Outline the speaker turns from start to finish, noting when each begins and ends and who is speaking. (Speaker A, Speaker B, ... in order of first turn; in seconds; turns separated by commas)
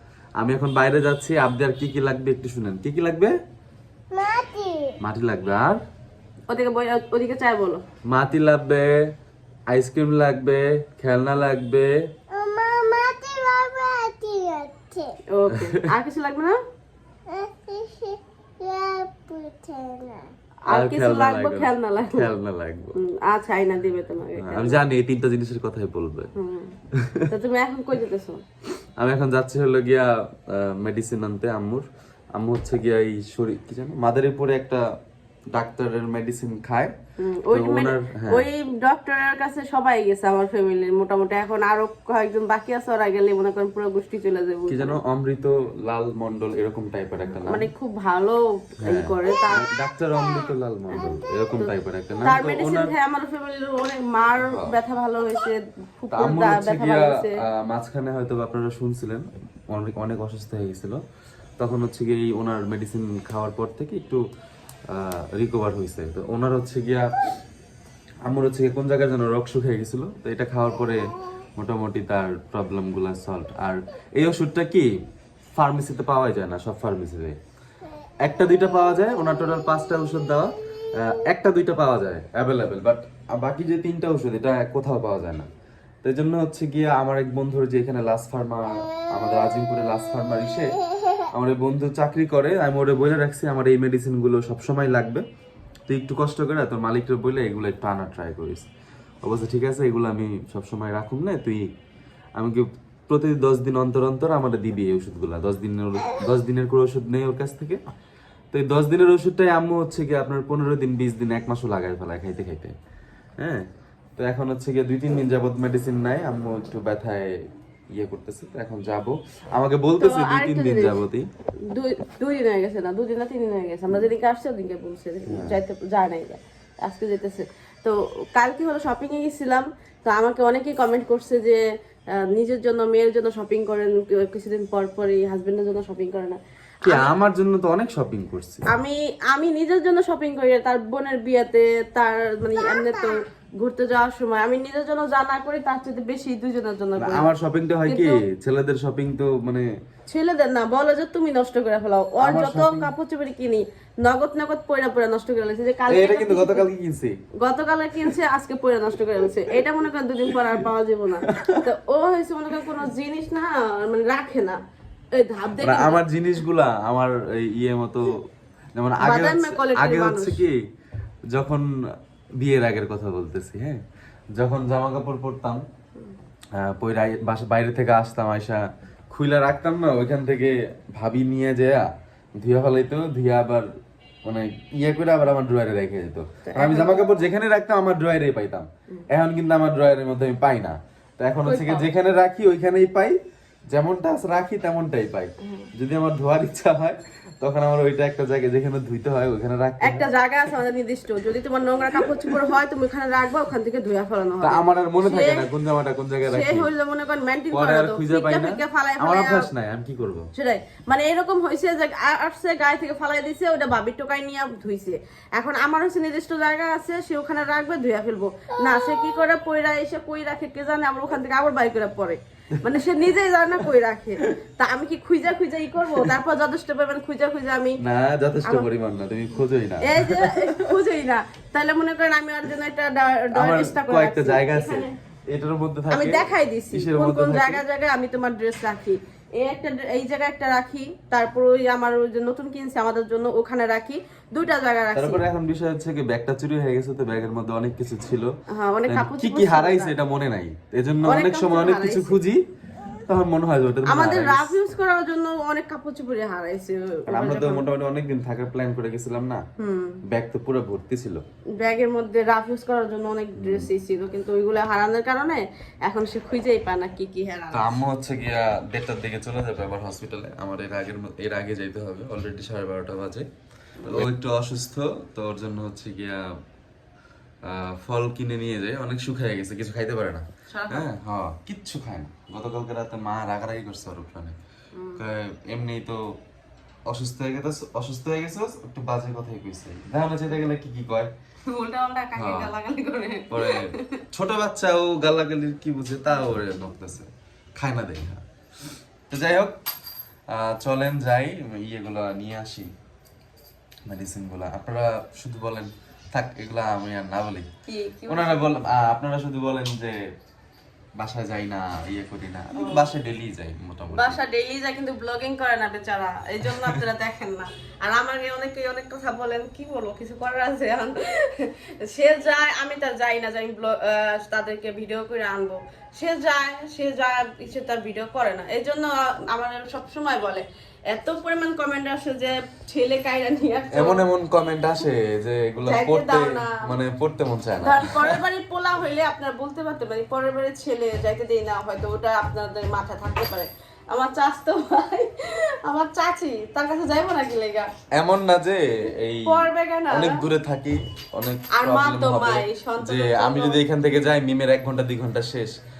Speaker A: 0.4-3.3, Speaker B: 4.1-4.9, Speaker A: 5.0-5.8, Speaker C: 6.5-7.8, Speaker A: 8.1-8.9, Speaker A: 9.7-11.9, Speaker B: 12.3-15.1, Speaker C: 15.3-16.6, Speaker B: 17.3-20.3, Speaker C: 20.7-22.3, Speaker A: 20.7-22.9, Speaker C: 23.0-24.9, Speaker A: 24.4-26.3, Speaker C: 26.4-26.8, Speaker A: 26.9-27.2, Speaker C: 27.3-28.4, Speaker A: 29.0-34.8, Speaker A: 35.5-36.9, Speaker C: 37.2-45.0, Speaker A: 37.5-38.4, Speaker A: 44.7-47.7, Speaker C: 47.3-49.6, Speaker A: 48.8-52.9, Speaker C: 52.2-57.3, Speaker A: 54.4-54.7, Speaker A: 56.1-61.0, Speaker A: 61.6-64.2, Speaker A: 64.9-67.1, Speaker A: 68.2-74.9, Speaker A: 75.5-77.4, Speaker A: 78.2-85.5, Speaker A: 86.0-90.7, Speaker A: 91.3-95.2, Speaker A: 95.9-98.7, Speaker A: 99.2-101.6, Speaker A: 102.4-107.8, Speaker A: 108.5-112.7, Speaker A: 113.4-113.6, Speaker A: 114.2-117.3, Speaker A: 118.0-121.3, Speaker C: 120.0-121.0, Speaker C: 121.7-131.6, Speaker A: 125.3-125.6, Speaker C: 132.3-137.1, Speaker A: 136.8-138.7, Speaker C: 138.7-147.3, Speaker A: 147.0-149.7, Speaker C: 147.9-148.2, Speaker C: 150.1-156.7, Speaker A: 152.2-152.9, Speaker A: 155.9-157.2, Speaker C: 157.4-164.6, Speaker A: 161.3-161.5, Speaker C: 165.1-166.0, Speaker A: 165.5-168.2, Speaker A: 168.8-170.6, Speaker C: 169.0-170.4, Speaker A: 171.3-171.7, Speaker A: 172.4-173.8, Speaker A: 174.3-175.6, Speaker A: 176.5-183.7, Speaker A: 184.2-193.2, Speaker C: 186.5-187.1, Speaker C: 191.4-191.9, Speaker A: 193.7-200.1, Speaker C: 195.4-195.7, Speaker C: 199.8-205.4, Speaker A: 204.4-206.7, Speaker C: 206.2-209.4, Speaker A: 207.5-210.3, Speaker C: 210.3-227.8, Speaker A: 227.8-230.4, Speaker C: 229.8-234.9, Speaker A: 233.3-237.6, Speaker C: 235.9-245.2, Speaker A: 244.9-248.3, Speaker C: 248.5-249.9, Speaker A: 248.9-252.4, Speaker C: 251.0-252.2, Speaker A: 253.1-254.6, Speaker C: 253.9-257.7, Speaker A: 257.1-259.4, Speaker C: 259.6-260.0, Speaker A: 260.1-261.2, Speaker C: 261.6-267.8, Speaker A: 263.4-263.7, Speaker A: 267.5-273.3, Speaker A: 273.8-276.2, Speaker A: 277.4-284.4, Speaker C: 280.5-280.9, Speaker C: 284.7-285.0, Speaker A: 285.0-286.0, Speaker A: 286.9-291.1, Speaker C: 291.5-293.8, Speaker A: 292.1-292.5, Speaker A: 293.3-298.2, Speaker A: 299.1-299.5, Speaker A: 300.3-302.7, Speaker A: 303.9-307.5, Speaker C: 307.7-308.4, Speaker A: 308.1-309.9, Speaker A: 311.0-314.2, Speaker C: 312.6-312.9, Speaker C: 313.9-334.0, Speaker A: 333.7-338.2, Speaker C: 335.6-336.6, Speaker C: 337.6-345.1, Speaker C: 345.6-347.7, Speaker A: 347.9-355.5, Speaker C: 349.3-350.2, Speaker C: 351.6-353.6